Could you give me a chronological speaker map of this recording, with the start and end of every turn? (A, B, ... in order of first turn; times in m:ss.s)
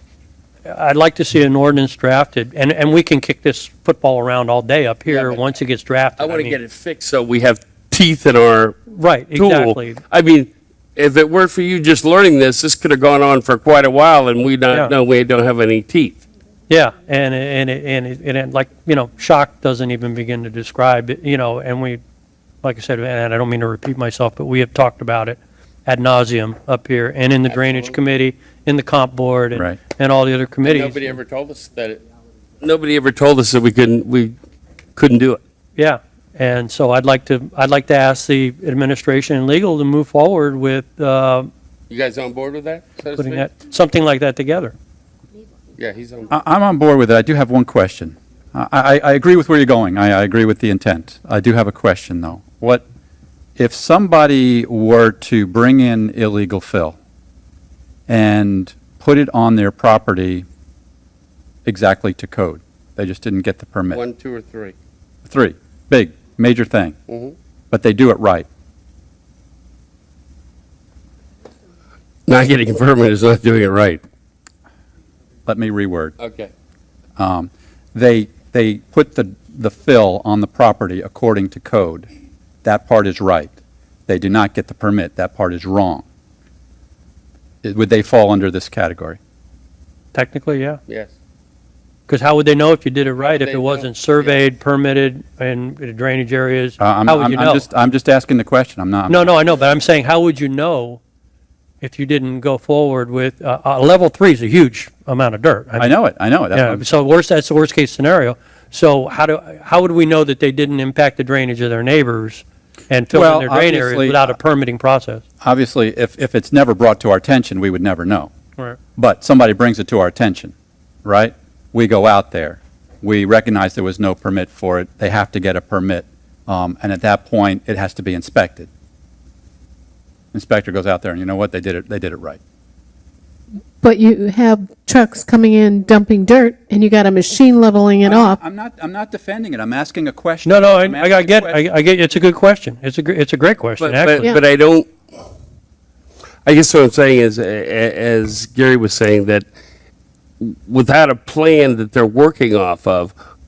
0:00.6-0:06.6 A
0:05.1-0:05.4 B
0:06.2-0:08.8 B
0:08.9-0:10.0 A
0:09.3-0:16.2 B
0:16.7-0:22.0 A
0:22.6-0:31.2 A
0:27.5-0:28.0 B
0:30.6-0:32.0 B
0:32.6-0:34.4 B
0:35.0-0:35.4 B
0:35.8-0:41.5 A
0:41.9-0:43.5 B
0:43.2-0:44.7 A
0:45.8-0:46.3 B
0:46.3-0:52.8 C
0:53.6-0:57.0 C
0:58.1-1:00.4 C
1:01.6-1:04.0 C
1:03.9-1:04.7 B
1:05.2-1:07.0 C
1:07.1-1:07.3 B
1:07.7-1:08.4 C
1:12.3-1:14.0 B
1:15.4-1:16.2 C
1:16.2-1:16.5 B
1:17.2-1:22.1 C
1:22.6-1:23.5 C
1:24.1-1:26.0 C
1:27.6-1:29.2 C
1:30.1-1:30.8 A
1:32.1-1:37.6 A
1:33.2-1:34.4 B
1:36.8-1:39.3 C
1:39.1-1:41.0 A
1:41.8-1:45.9 A
1:45.8-1:46.8 C
1:46.5-1:55.2 A
1:53.1-1:54.4 C
1:55.4-1:58.3 C
1:59.0-2:00.5 C
2:01.0-2:08.7 C
2:10.3-2:12.4 C
2:13.8-2:18.4 D
2:18.0-2:21.7 C
2:20.4-2:24.3 A
2:23.8-2:24.9 B
2:26.4-2:29.4 B
2:30.4-2:33.1 B